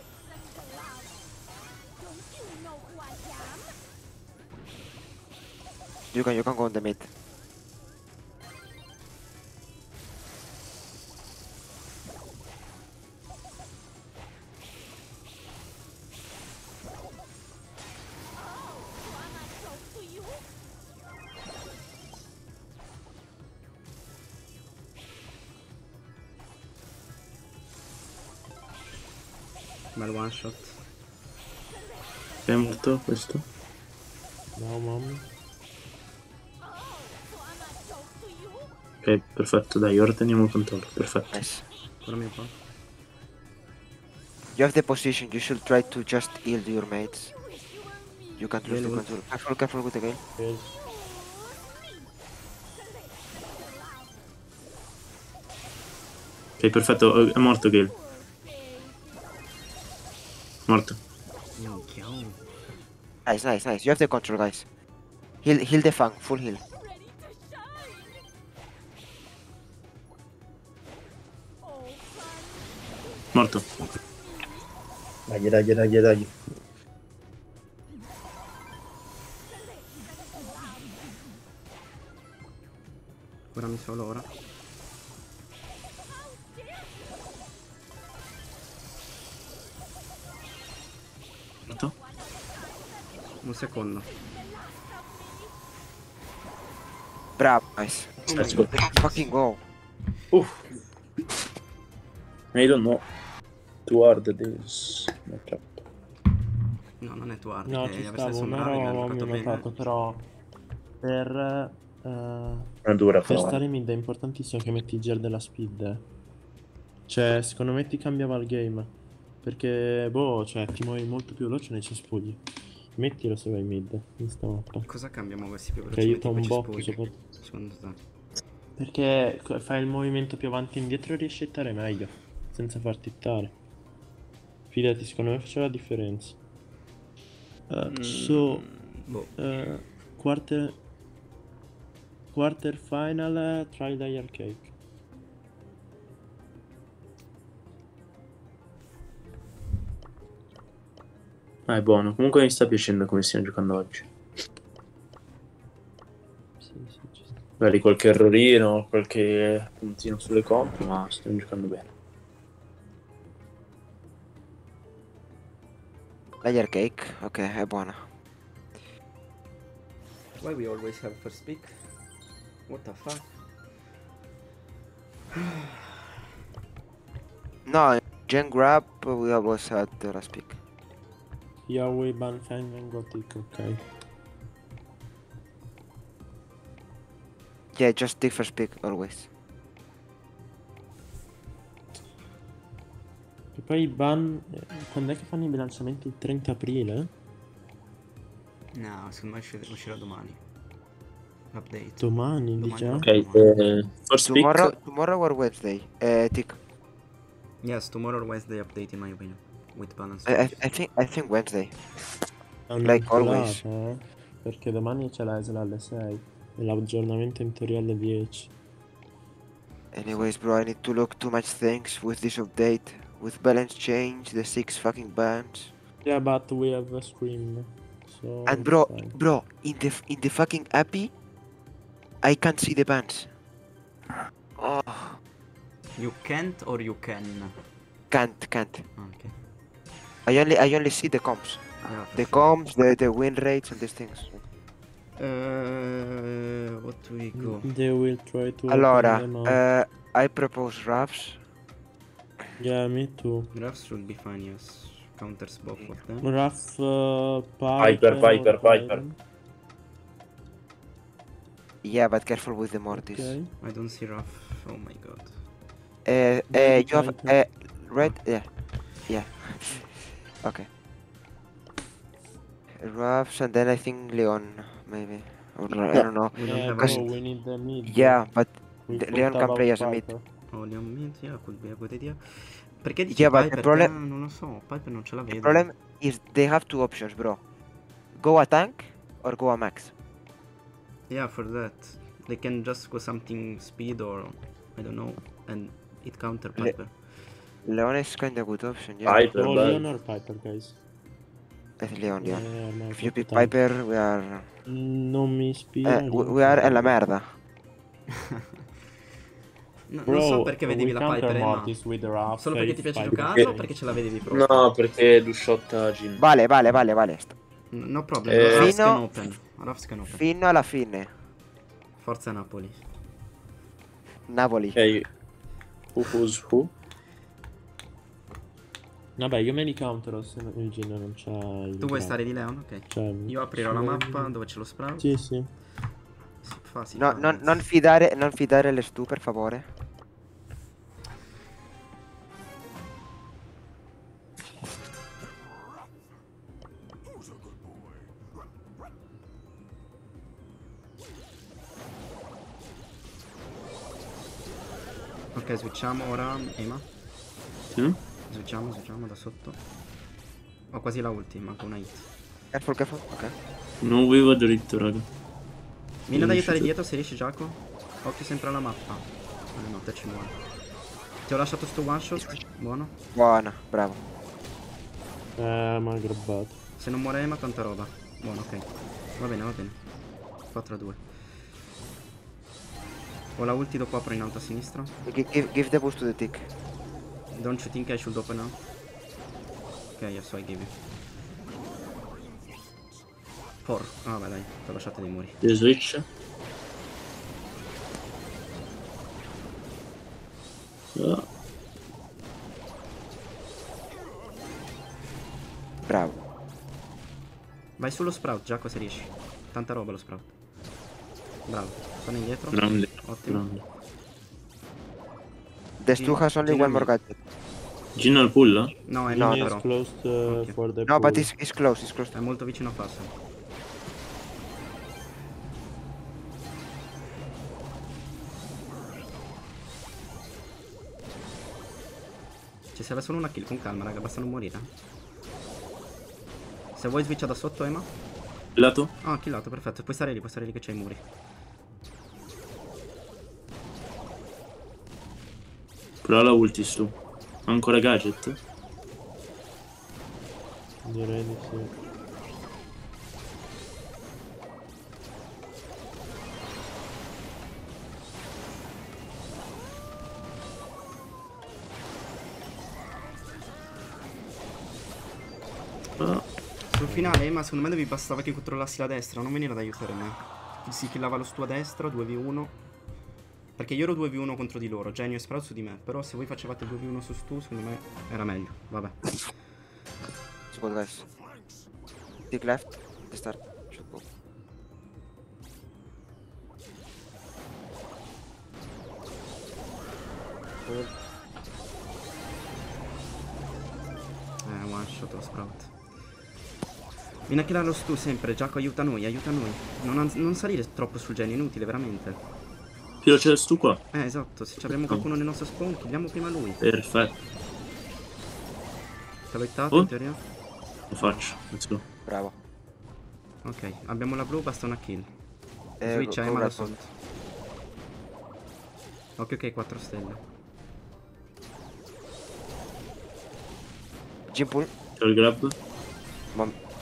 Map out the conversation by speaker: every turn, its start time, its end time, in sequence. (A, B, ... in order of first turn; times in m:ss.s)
0:06.1-0:07.1 A
0:30.0-0:30.8 B
0:32.5-0:33.4 C
0:34.6-0:35.3 D
0:39.0-0:41.4 C
0:41.3-0:41.6 A
0:42.0-0:42.5 B
0:44.6-0:47.4 A
0:48.4-0:50.2 A
0:48.6-0:49.2 B
0:50.4-0:50.8 D
0:56.6-0:58.0 C
1:00.7-1:01.0 C
1:01.6-1:02.4 B
1:03.3-1:04.7 A
1:05.4-1:06.6 A
1:13.3-1:13.7 C
1:15.3-1:16.4 C
1:23.5-1:24.3 B
1:31.7-1:32.0 C
1:33.4-1:34.1 B
1:37.4-1:39.6 A
1:38.3-1:39.0 B
1:38.3-1:39.2 C
1:40.3-1:40.7 C
1:42.5-1:43.0 C
1:43.9-1:45.8 C
1:47.0-1:49.7 B
1:47.7-1:50.3 D
1:51.0-1:56.0 D
1:52.8-1:53.6 C
1:57.1-1:58.9 D
1:59.4-2:02.4 D
2:03.0-2:04.9 D
2:04.9-2:08.0 B
2:05.9-2:07.2 D
2:08.8-2:13.5 D
2:14.7-2:16.4 D
2:17.7-2:18.6 D
2:17.9-2:19.3 B
2:19.4-2:20.8 D
2:22.3-2:24.7 D
2:31.7-2:34.1 C
2:36.6-2:37.4 D
2:37.6-2:41.9 C
2:46.4-2:48.0 A
2:50.4-2:51.9 B
2:52.7-2:53.3 B
2:55.3-2:56.0 B
2:57.7-3:00.6 A
3:01.7-3:03.8 D
3:07.8-3:09.3 A
3:13.6-3:17.1 D
3:18.7-3:20.4 B
3:21.5-3:23.7 B
3:22.0-3:23.1 D
3:23.0-3:24.7 C
3:24.2-3:26.6 A
3:27.6-3:30.6 B
3:30.3-3:31.8 A
3:32.7-3:38.5 D
3:32.8-3:33.6 A
3:39.9-3:45.7 A
3:46.0-3:49.2 D
3:48.5-3:51.1 A
3:52.2-3:53.3 A
3:54.6-3:55.2 A
3:56.0-3:57.6 B
3:58.1-3:58.8 A
3:59.0-3:59.4 B
4:00.3-4:04.4 A
4:01.8-4:02.5 B
4:05.2-4:07.7 B
4:07.4-4:09.6 D
4:08.7-4:11.4 A
4:12.6-4:13.5 D
4:13.5-4:16.3 B
4:16.2-4:19.2 D
4:17.8-4:19.0 C
4:21.8-4:23.3 A
4:22.9-4:23.5 D
4:23.6-4:25.3 B
4:26.0-4:28.5 A
4:26.5-4:27.4 D
4:29.1-4:30.7 A
4:32.8-4:37.0 A
4:36.3-4:37.1 B
4:36.4-4:38.2 D
4:37.9-4:40.0 A
4:38.9-4:40.2 D
4:40.5-4:45.7 B
4:43.1-4:43.9 A
4:45.3-4:47.4 A
4:48.2-4:49.9 A
4:51.1-4:56.9 B
4:57.7-4:59.3 A
4:59.1-4:59.8 C
4:59.3-5:00.8 D
5:01.8-5:04.5 A
5:02.2-5:03.6 D
5:04.7-5:06.9 D
5:05.8-5:07.3 A
5:08.1-5:08.4 B
5:09.9-5:11.8 B
5:10.1-5:13.7 D
5:12.4-5:14.7 B
5:14.3-5:16.2 C
5:16.2-5:17.3 A
5:17.7-5:20.2 B
5:18.2-5:18.7 C
5:18.5-5:19.0 A
5:20.1-5:21.1 A
5:22.0-5:22.8 B
5:24.3-5:24.8 A
5:24.8-5:25.1 C
5:25.9-5:26.7 C
5:29.2-5:32.2 D
5:31.8-5:35.1 B
5:32.9-5:34.3 D
5:35.0-5:35.5 D
5:36.4-5:37.6 B
5:37.0-5:39.7 A
5:55.3-5:56.8 B
5:57.7-5:58.0 C
5:58.3-5:59.6 B
6:00.7-6:02.1 B
6:02.5-6:03.3 A
6:03.8-6:05.1 C
6:06.1-6:10.4 B
6:06.1-6:06.7 C
6:11.3-6:12.9 B
6:13.1-6:14.0 A
6:15.4-6:16.6 D
6:16.8-6:19.8 B
6:20.5-6:21.0 B
6:23.4-6:24.9 B
6:25.0-6:26.5 A
6:27.3-6:28.6 B
6:30.0-6:30.7 B
6:33.6-6:35.4 B
6:35.4-6:36.0 C
6:41.0-6:41.3 C
6:45.9-6:46.2 A
6:47.8-6:50.3 B
6:51.5-6:53.4 B
6:52.5-6:53.6 C
6:55.8-6:57.2 A
6:55.9-6:56.9 B
6:58.0-6:58.8 C
6:58.8-6:59.6 B
6:59.1-7:01.3 D
6:59.1-6:59.5 A
7:00.3-7:00.5 B
7:00.9-7:02.1 A
7:02.1-7:03.1 B
7:12.7-7:14.7 B
7:16.8-7:17.9 B
7:18.6-7:18.9 C
7:19.0-7:21.0 B
7:26.0-7:28.4 C
7:30.8-7:31.7 D
7:46.0-7:46.3 C
7:46.7-7:52.6 B
7:53.6-7:59.2 B
8:00.5-8:01.1 A
8:02.3-8:04.0 A
8:14.4-8:15.7 B
8:17.3-8:22.2 B
8:23.0-8:23.8 C
8:23.9-8:26.6 B
8:24.7-8:25.0 C
8:26.6-8:27.1 C
8:29.3-8:30.2 B
8:30.9-8:31.8 C
8:32.0-8:32.4 A
8:33.4-8:35.1 B
8:35.8-8:36.8 A
8:35.8-8:36.9 B
8:39.2-8:40.2 B
8:44.3-8:44.7 A
8:45.0-8:45.6 C